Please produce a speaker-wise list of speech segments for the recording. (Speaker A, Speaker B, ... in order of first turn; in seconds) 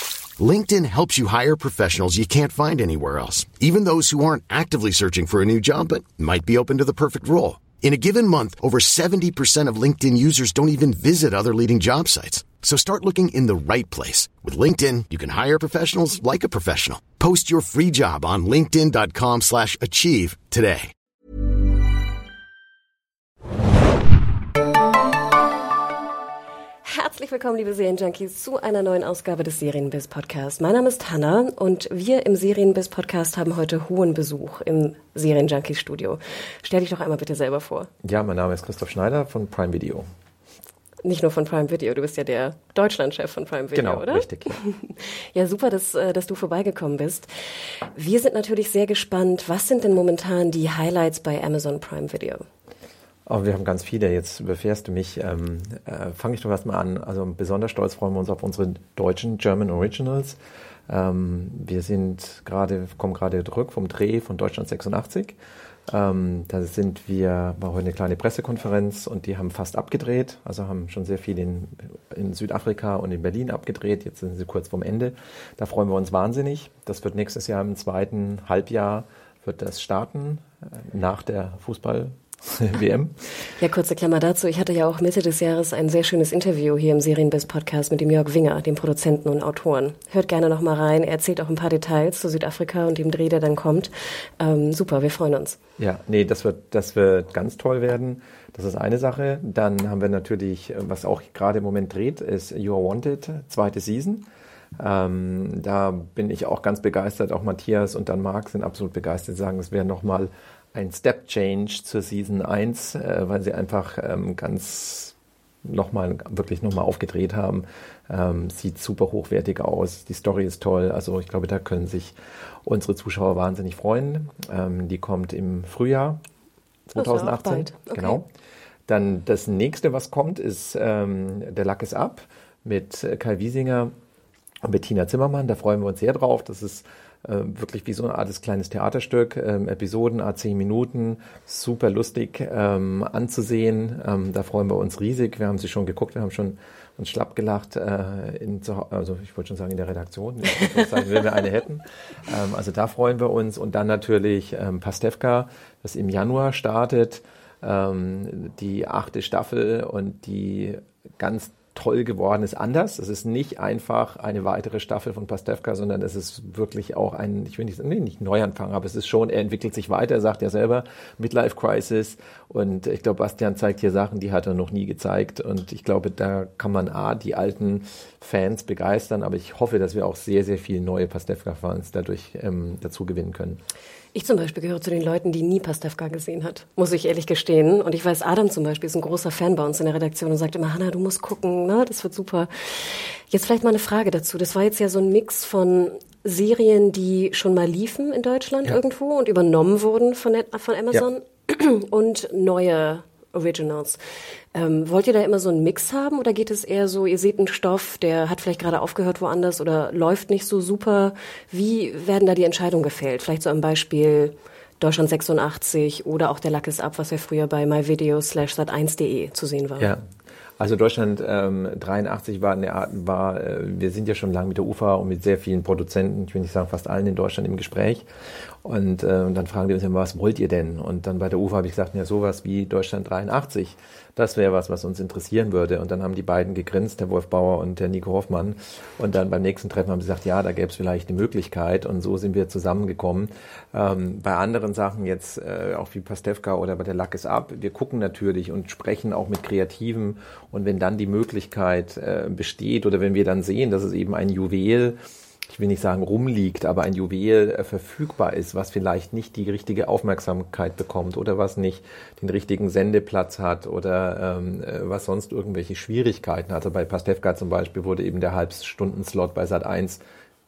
Speaker A: 0.4-20.9
Speaker B: 26.8-37.9, 41.0-47.3, 47.9-52.5, 83.6-95.6, 127.0-128.2, 184.1-204.0, 204.5-219.9
Speaker C: 38.0-40.0, 43.7-44.6, 53.2-65.3, 65.9-83.1, 95.8-104.2, 104.8-115.1, 115.7-122.1, 122.7-126.2, 126.9-128.2, 128.9-133.9, 134.6-183.6, 220.6-228.1, 228.6-270.0